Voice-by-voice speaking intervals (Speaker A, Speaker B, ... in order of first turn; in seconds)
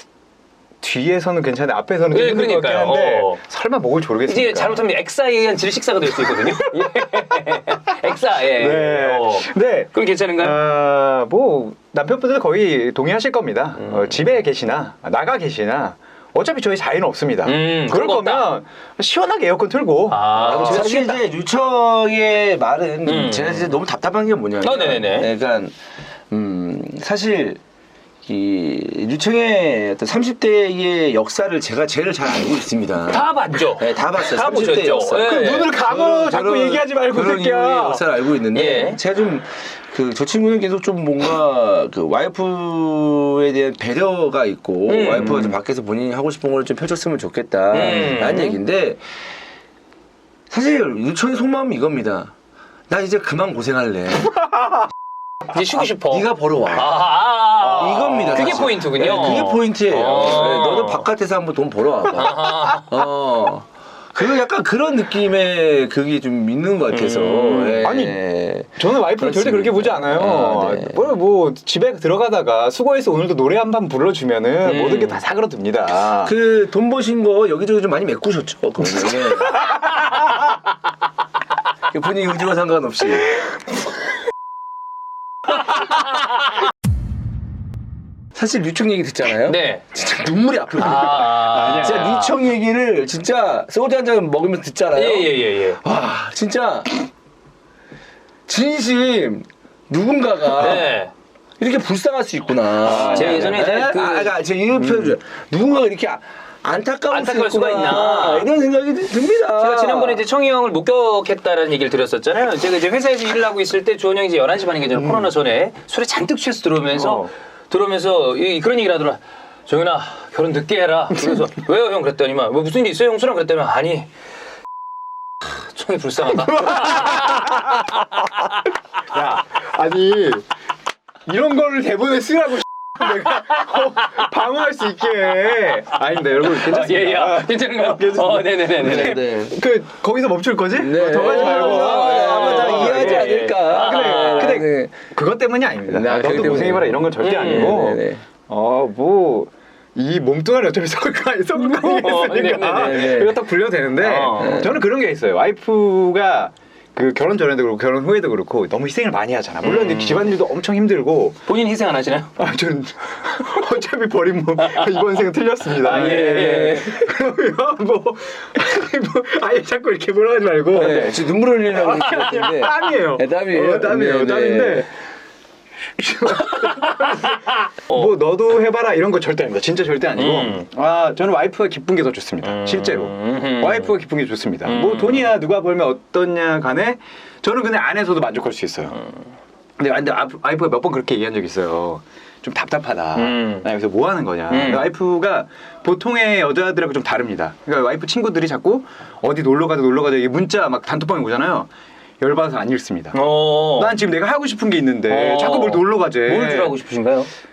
Speaker A: 0.8-4.9, 6.1-7.1, 8.4-21.1, 35.1-38.1, 57.6-58.8, 67.8-68.2, 68.8-76.3, 79.0-80.0, 91.4-92.1, 102.9-103.4, 104.8-105.2, 115.0-115.3, 117.0-117.3, 126.4-127.9, 129.1-130.5, 131.3-161.4, 162.4-174.9, 176.0-189.0, 189.8-206.7
Speaker B: 2.1-3.4, 4.3-10.6, 17.4-18.5, 20.1-21.2, 23.0-23.7, 24.6-25.3, 33.1-35.8, 38.5-39.0, 44.9-45.6, 47.7-48.6, 55.5-61.1, 62.1-62.9, 66.9-67.9, 74.6-75.2, 89.5-89.8, 90.8-92.4, 94.9-95.8, 100.6-101.1, 102.8-104.3, 107.1-108.5, 109.5-124.1, 125.4-128.6, 133.7-134.2, 136.1-139.3, 141.2-144.7, 147.2-147.8, 151.6-153.2, 154.0-154.7, 159.6-160.3, 161.5-162.3, 164.6-165.0, 165.8-166.9, 176.7-177.4, 180.2-180.7, 182.4-183.9, 184.6-185.3, 193.2-193.7, 194.5-194.9, 203.1-204.0, 205.1-207.3
Speaker C: 20.4-25.8, 26.3-27.6, 28.2-49.1, 50.5-52.3, 52.9-54.4, 56.1-57.0, 57.8-71.1, 76.2-79.6, 81.9-83.4, 88.3-97.1, 98.5-101.0, 101.6-110.2, 138.8-139.6, 140.8-145.0, 145.9-148.2, 152.7-153.4, 154.4-154.8, 165.9-167.0, 170.7-174.9